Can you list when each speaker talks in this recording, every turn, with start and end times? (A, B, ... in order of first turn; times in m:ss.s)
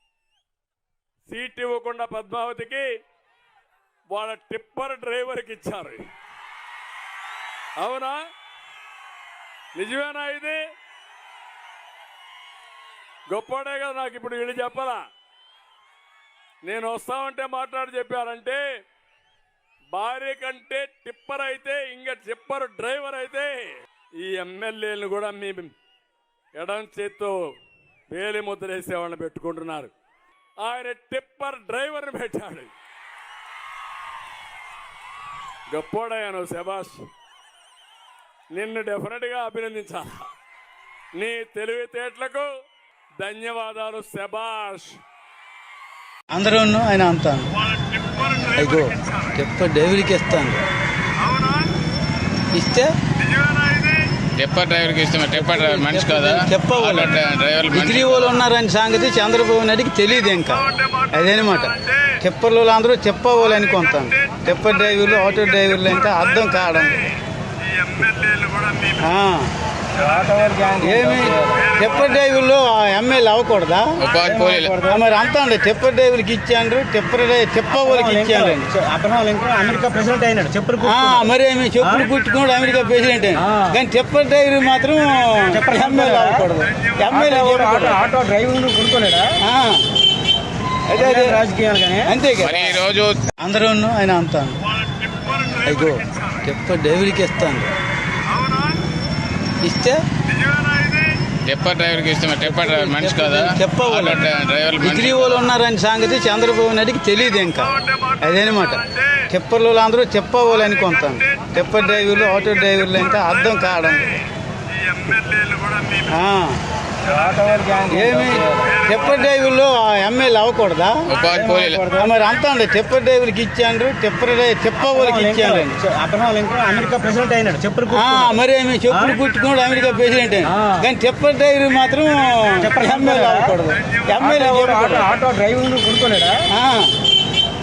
0:01.3-0:02.9 A
0:04.1-0:06.0 A
0:07.8-0:08.2 A
0:09.7-0:10.6 A
0:13.3-0:15.0 A
0:16.6-0:18.6 A
0:19.9-0:25.7 A
0:26.6-0:27.5 A
0:28.1-0:29.9 A
0:30.6-0:32.7 A
0:35.7-0:37.0 A
0:38.5-0:40.3 A
0:41.2-0:42.5 A
0:43.2-0:45.0 A
0:46.3-0:47.5 B
0:48.1-0:48.4 A
0:48.5-0:50.6 B
0:51.3-0:51.7 A
0:52.5-0:52.9 B
0:53.4-0:54.0 A
0:54.3-0:58.4 C
0:55.3-0:57.1 B
0:57.7-1:07.1 B
1:08.0-1:08.8 A
1:09.0-1:09.5 B
1:09.9-1:11.8 D
1:10.8-1:13.9 B
1:14.0-1:14.8 C
1:14.2-1:15.0 D
1:14.8-1:18.6 B
1:17.7-1:21.3 D
1:20.8-1:28.0 B
1:21.8-1:22.1 D
1:23.4-1:23.8 D
1:25.5-1:26.5 D
1:27.1-1:29.3 D
1:29.4-1:29.8 B
1:30.9-1:31.4 B
1:30.9-1:32.1 D
1:32.0-1:32.8 B
1:32.4-1:33.2 C
1:33.4-1:34.6 B
1:35.6-1:37.7 B
1:39.6-1:40.0 B
1:40.5-1:40.9 A
1:41.4-1:45.4 C
1:42.4-1:44.3 B
1:44.8-1:54.2 B
1:55.1-1:55.9 A
1:56.1-1:56.6 B
1:57.0-1:58.9 D
1:57.9-2:01.0 B
2:01.1-2:01.9 C
2:01.3-2:02.1 D
2:01.9-2:05.8 B
2:04.8-2:08.4 D
2:07.9-2:15.1 B
2:08.9-2:09.2 D
2:10.4-2:10.9 D
2:12.6-2:13.5 D
2:14.2-2:16.4 D
2:16.5-2:16.9 B